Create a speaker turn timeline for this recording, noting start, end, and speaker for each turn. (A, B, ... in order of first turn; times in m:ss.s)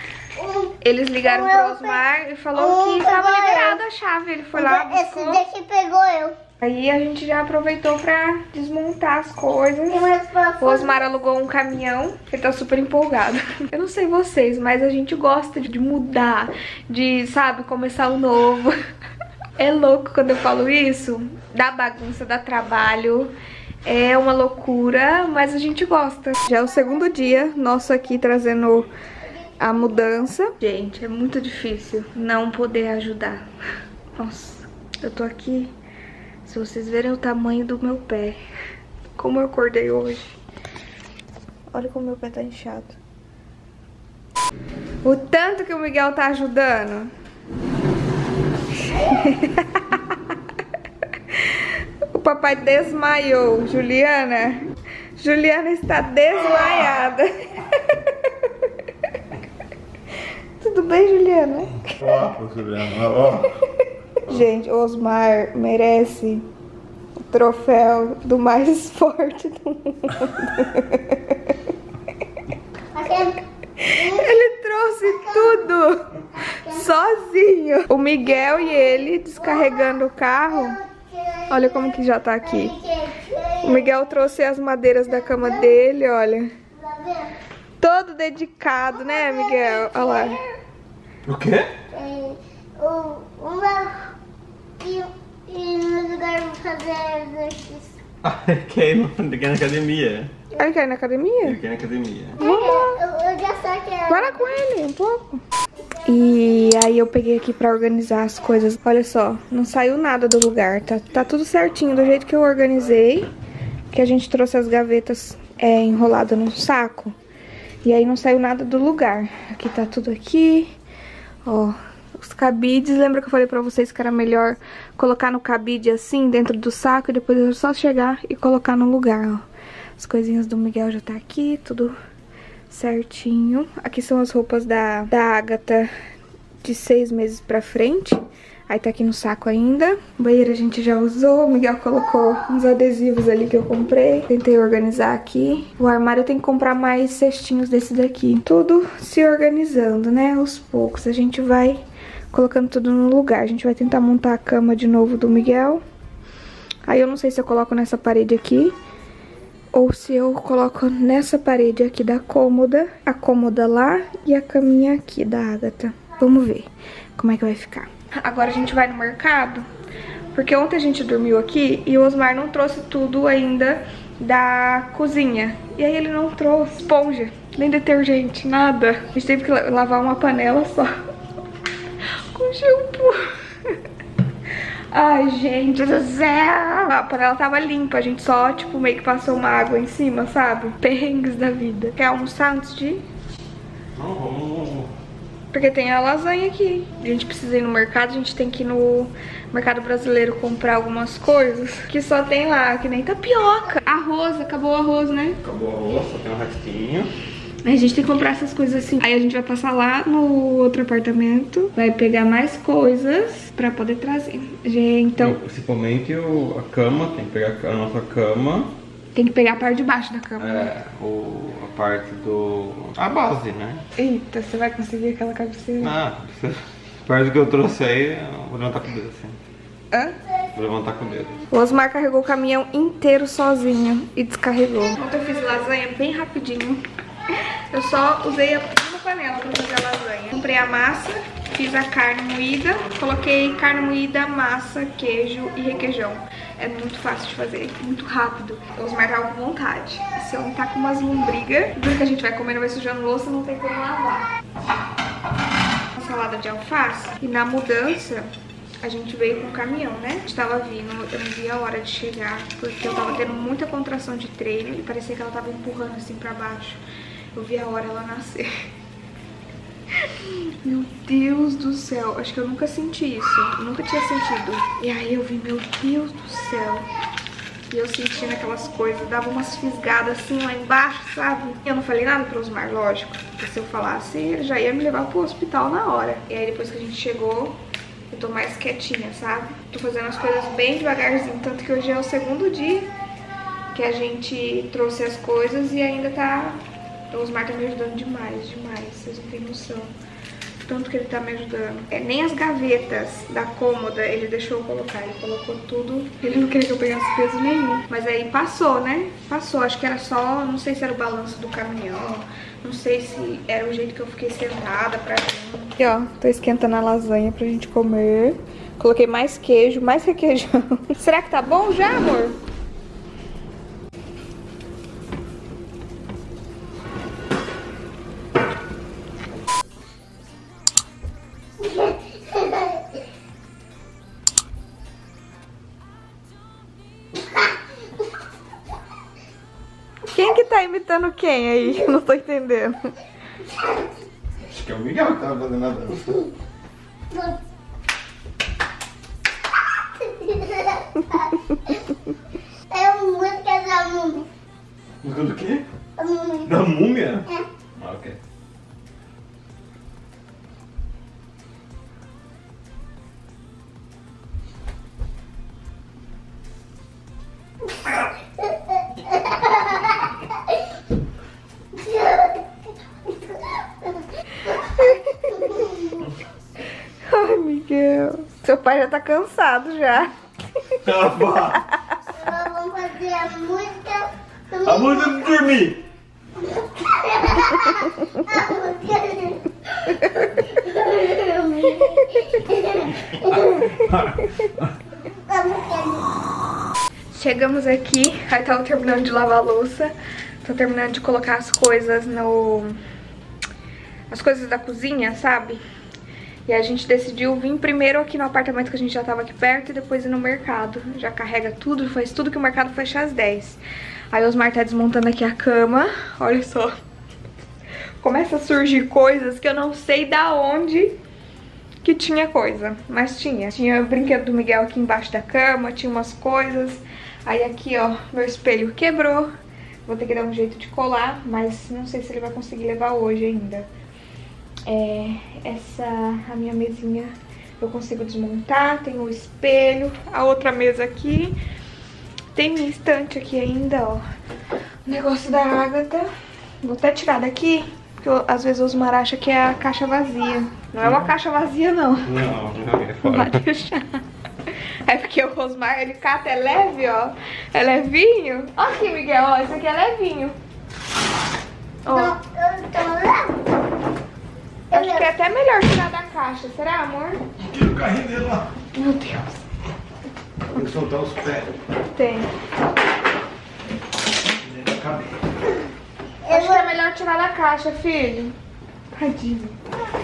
0:00.4-0:02.0 A
0:00.8-0:05.4 B
0:02.6-0:03.8 A
0:04.6-0:06.4 A
0:06.6-0:18.7 B
0:09.9-0:11.0 A
0:19.6-0:23.3 B
0:23.8-0:28.9 B
0:29.6-0:33.5 B
0:34.2-0:35.7 B
0:36.4-0:38.4 B
0:39.2-0:40.4 B
0:41.7-0:43.0 B
0:45.0-0:47.1 B
0:48.8-0:50.2 B
0:52.1-0:54.6 B
0:55.2-0:58.1 B
1:00.6-1:02.0 B
1:02.0-1:03.5 C
1:04.3-1:06.5 B
1:07.3-1:11.5 B
1:12.9-1:13.4 A
1:13.8-1:20.8 B
1:14.0-1:14.4 A
1:15.1-1:15.7 A
1:16.6-1:16.8 A
1:18.3-1:20.0 A
1:20.5-1:24.0 A
1:21.5-1:22.8 B
1:23.6-1:26.5 B
1:25.1-1:25.8 A
1:26.7-1:27.4 A
1:27.8-1:30.4 B
1:28.9-1:30.4 A
1:31.3-1:31.7 C
1:31.9-1:34.1 A
1:34.8-1:38.0 A
1:38.2-1:40.3 C
1:40.6-1:41.6 B
1:41.4-1:42.4 C
1:42.4-1:43.0 B
1:42.4-1:44.5 A
1:44.1-1:45.4 B
1:46.0-1:53.3 B
1:53.9-1:57.2 B
1:57.8-2:00.7 B
2:01.4-2:09.4 B
2:10.0-2:12.0 B
2:12.7-2:15.9 B
2:16.6-2:35.8 B
2:36.9-2:38.8 B
2:39.7-2:49.7 B
2:50.3-3:00.9 B
3:02.3-3:03.8 B
3:04.9-3:13.0 B
3:14.0-3:14.9 C
3:15.5-3:25.4 B
3:25.4-3:27.1 C
3:27.6-3:35.4 B
3:35.2-3:38.8 C
3:39.1-3:40.7 B
3:40.4-3:43.8 C
3:44.0-3:46.0 B
3:45.8-3:49.4 C
3:49.9-3:50.2 B
3:50.5-3:51.4 C
3:51.5-3:56.8 B
3:57.7-4:14.3 B
4:16.0-4:18.3 B
4:18.8-4:26.8 B
4:27.3-4:28.5 B
4:30.1-4:36.9 B
4:37.7-4:47.6 B
4:48.1-4:52.9 B
4:53.7-4:59.9 B
5:00.6-5:22.4 B
5:31.7-5:32.8 A
5:40.1-5:42.8 B
5:44.5-5:46.2 C
5:47.1-5:47.4 A
5:50.0-5:51.3 A
5:52.7-5:54.3 A
5:55.0-5:55.6 C
5:56.0-5:56.6 A
5:56.4-5:58.2 C
6:09.1-6:09.8 A
6:11.7-6:14.0 A
6:14.7-6:15.4 B
6:15.3-6:16.1 A
6:17.0-6:20.1 B
6:20.8-6:21.6 C
6:22.1-6:25.2 A
6:24.6-6:25.8 C
6:26.4-6:33.6 A
6:35.2-6:36.1 A
6:37.1-6:42.8 B
6:44.1-6:45.6 B
6:46.5-6:53.6 B
6:54.1-6:56.7 B
6:58.0-7:00.9 B
7:01.8-7:09.3 B
7:09.9-7:13.7 B
7:14.7-7:21.4 B
7:22.4-7:24.0 B
7:24.9-7:26.1 B
7:26.6-7:32.1 B
7:30.8-7:31.1 C
7:32.0-7:33.4 C
7:33.0-7:40.4 B
7:41.8-7:42.2 B
7:41.9-7:43.4 A
7:44.7-7:45.1 A
7:44.7-7:47.2 B
7:47.4-7:48.5 C
7:48.7-7:49.4 B
7:50.6-7:51.5 C
7:51.9-7:52.3 B
7:54.5-7:55.1 C
7:56.2-7:56.7 A
7:56.3-7:58.4 B
7:58.9-7:59.6 B